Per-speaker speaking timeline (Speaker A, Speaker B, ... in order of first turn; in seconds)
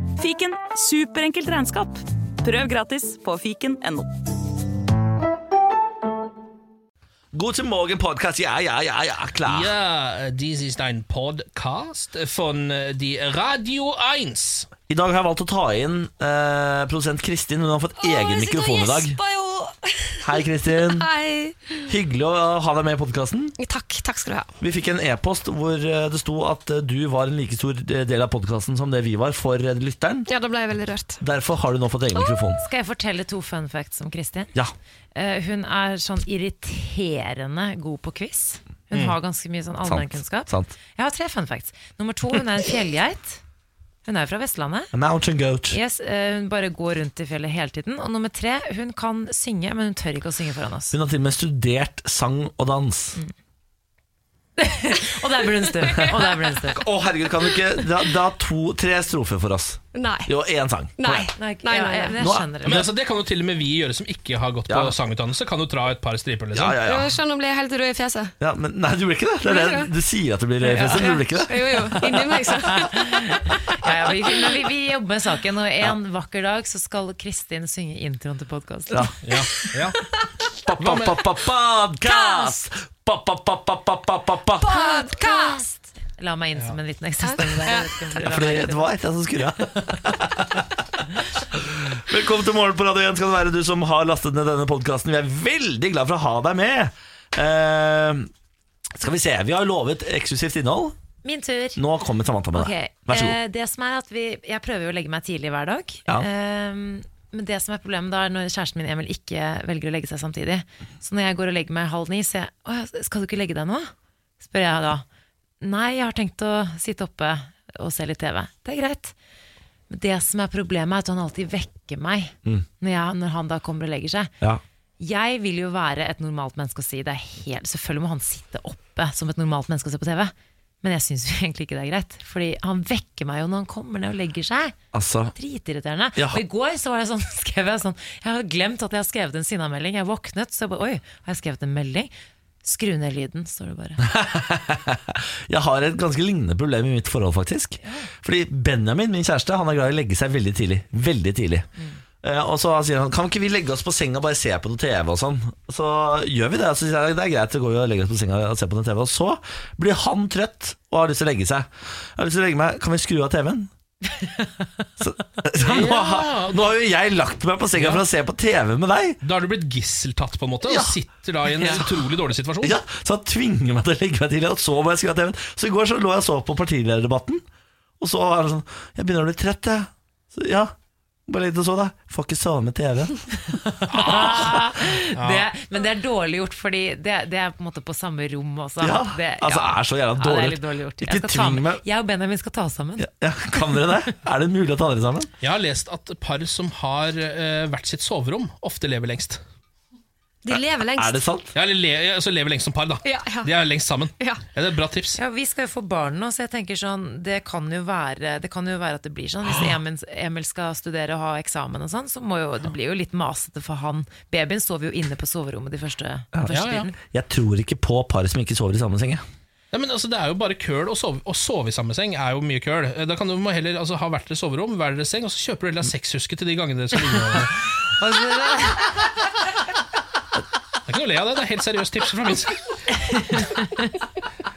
Speaker A: 0.2-4.1
Speaker B: 7.3-9.7, 14.9-19.2, 20.2-21.1, 21.9-23.6, 24.6-30.3, 31.2-32.6, 39.9-40.7, 44.9-45.8, 50.9-53.2, 56.7-61.3, 62.2-62.9, 64.7-64.9, 66.5-67.2, 68.4-72.0, 78.9-79.2, 80.5-84.8, 88.2-90.6, 91.5-98.3, 98.9-101.0, 101.8-103.4, 134.9-135.3, 144.0-151.7, 152.2-163.7, 165.0-169.2, 170.6-170.9, 171.5-172.0, 172.6-177.4, 178.0-180.7, 181.3-184.4, 188.8-191.8, 193.0-195.3, 200.6-201.5, 216.3-219.2
Speaker C: 9.4-14.7, 62.6-66.8, 79.2-80.0, 80.8-81.2, 165.6-166.6, 167.8-168.0, 169.2-172.8, 183.9-185.5, 195.4-199.4, 201.5-205.2, 216.5-216.8, 219.7-227.6, 230.8-232.6
Speaker D: 18.0-21.9, 23.6-24.5, 30.3-31.2, 59.9-60.3, 61.0-62.3, 66.8-68.3, 69.4-69.9, 70.6-73.1, 82.1-82.5, 84.6-85.6, 87.2-87.9, 200.4-201.2, 203.0-203.5
Speaker E: 32.5-34.5, 35.1-43.4, 44.0-44.9, 45.7-51.0, 54.6-56.8, 61.4-62.8, 72.7-79.2, 84.7-88.9, 101.2-101.8, 102.5-115.0, 115.6-119.2, 119.9-124.3, 125.0-134.8, 135.3-142.1, 142.6-144.0, 147.8-148.1, 183.9-193.8, 205.2-217.0, 228.0-228.8